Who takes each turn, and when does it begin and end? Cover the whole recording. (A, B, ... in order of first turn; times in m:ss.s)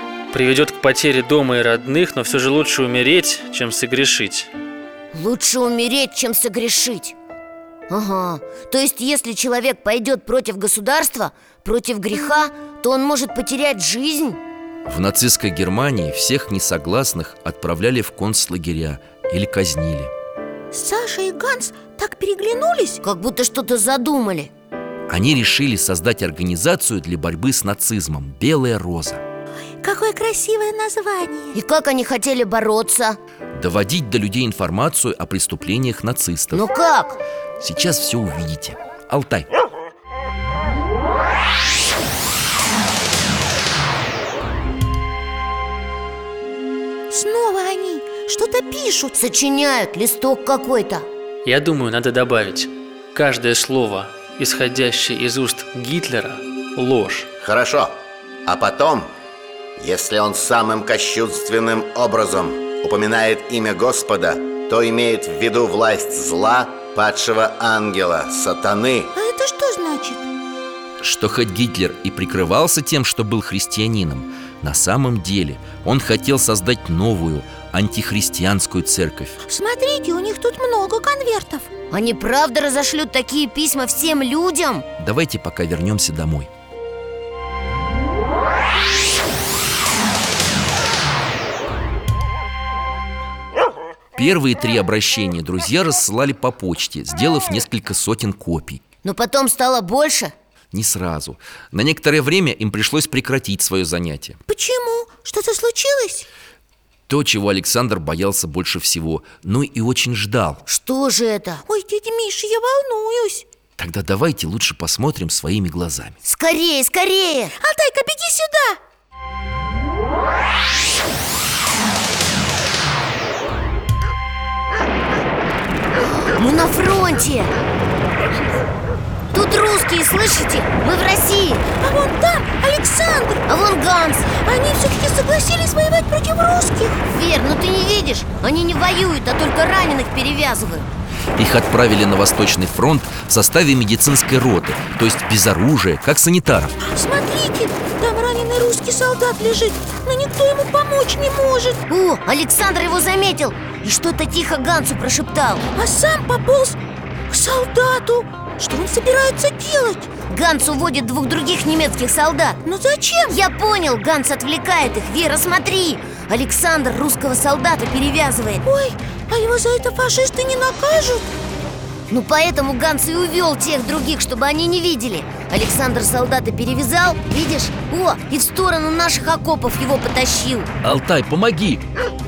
0:00.3-0:04.5 A
0:05.1-0:07.2 B
0:07.9-0:14.4 B
0:14.8-0:20.1 C
0:20.7-0:23.0 D
0:23.0-0:24.5 B
0:25.1-0:29.2 C
0:29.8-0:31.6 D
0:31.5-0:33.2 B
0:33.5-0:36.6 C
0:36.5-0:37.2 B
0:37.6-0:39.5 C
0:47.1-0:49.1 D
0:49.1-0:51.0 B
0:51.4-0:57.3 A
0:57.4-0:59.1 E
0:59.8-1:09.1 E
1:09.1-1:10.3 D
1:11.0-1:19.4 C
1:19.4-1:21.7 D
1:21.9-1:24.9 B
1:25.0-1:26.5 C
1:34.2-1:38.8 C
1:39.0-1:40.3 B
1:40.7-1:44.4 C
1:44.5-1:46.3 D
1:47.1-1:50.6 C
1:50.6-1:51.6 B
1:51.6-1:53.4 D
1:53.8-1:56.2 C
1:56.2-1:57.5 B
1:57.6-1:58.8 D
2:06.3-2:07.5 B
2:09.3-2:11.6 B
2:11.8-2:13.4 D
2:13.5-2:14.3 B
2:14.3-2:17.0 D
2:17.1-2:20.9 B
2:21.4-2:26.7 C
2:26.8-2:31.8 D
2:31.9-2:35.7 B
2:35.7-2:36.8 D
2:37.3-2:40.1 D
2:40.3-2:42.6 B
2:42.6-2:43.4 D
2:43.3-2:48.6 B
2:48.6-2:51.2 D
2:52.1-3:00.7 B
3:00.8-3:01.8 C